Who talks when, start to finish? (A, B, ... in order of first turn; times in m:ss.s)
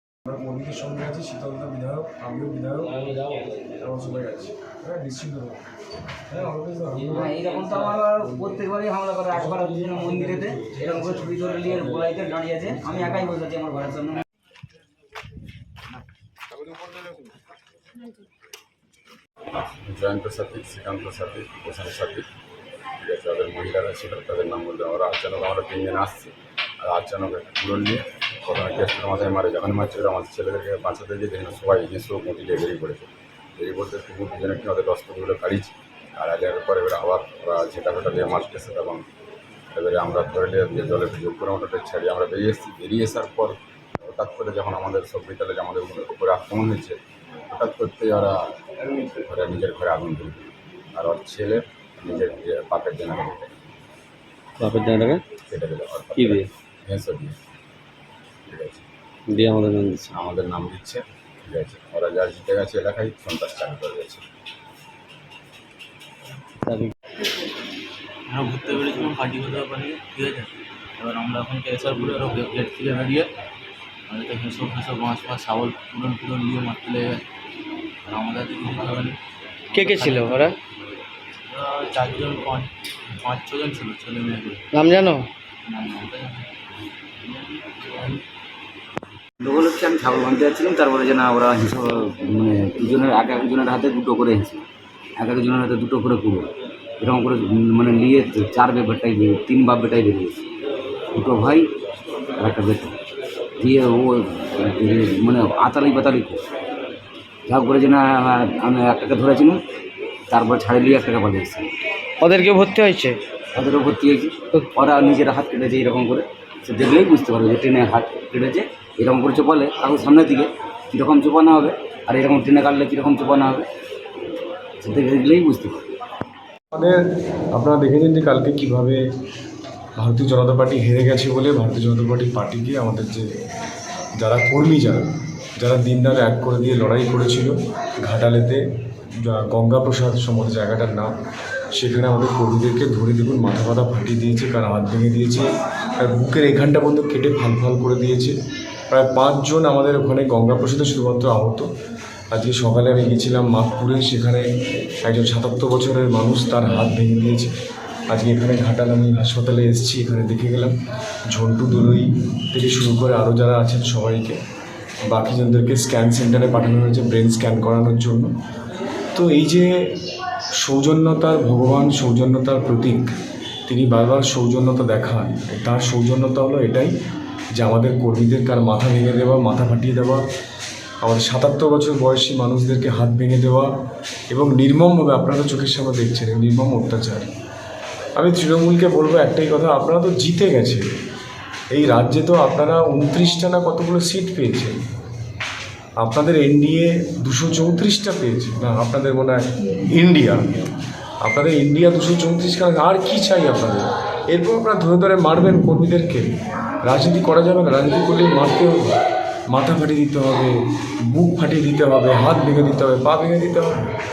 0:00.3-0:03.0 A
0:03.7-0:05.6 A
0:06.3-0:07.4 A
0:07.1-0:14.2 B
0:08.2-0:08.6 A
0:10.0-0:10.5 A
0:19.8-0:22.3 C
0:23.0-0:39.1 C
0:39.7-0:48.4 C
0:49.2-0:53.5 C
0:54.6-0:55.2 D
0:55.5-0:57.4 C
0:56.2-0:56.5 D
0:58.5-0:58.8 C
0:59.4-1:00.1 D
1:00.1-1:04.2 C
1:06.7-1:06.9 D
1:08.3-1:13.3 E
1:14.1-1:17.2 E
1:18.1-1:19.2 E
1:19.7-1:20.6 E
1:21.5-1:26.5 E
1:27.2-1:28.2 E
1:29.4-1:34.6 B
1:35.2-1:40.4 B
1:41.1-1:41.7 B
1:42.4-1:43.0 B
1:43.6-1:46.4 B
1:47.5-1:49.6 B
1:50.3-1:51.7 B
1:52.2-1:53.2 E
1:53.6-2:03.7 B
2:04.8-2:05.8 B
2:06.7-2:07.0 A
2:07.5-2:09.0 A
2:10.0-2:13.3 A
2:14.2-2:15.0 A
2:15.6-2:18.6 A
2:19.2-2:21.1 A
2:21.8-2:25.5 A
2:26.0-2:28.4 A
2:28.9-2:31.7 A
2:32.3-2:34.4 A
2:35.0-2:37.5 A
2:38.1-2:40.8 A
2:41.3-2:44.4 A
2:45.1-2:48.3 A
2:49.2-2:49.8 A
2:50.6-2:53.1 A
2:53.7-2:56.9 A
2:57.6-3:00.2 A
3:01.0-3:03.7 A
3:04.3-3:07.3 A
3:08.2-3:10.8 A
3:11.7-3:14.8 A
3:16.0-3:20.7 A
3:21.2-3:26.3 A
3:26.9-3:29.0 A
3:29.5-3:30.6 A
3:31.1-3:33.7 A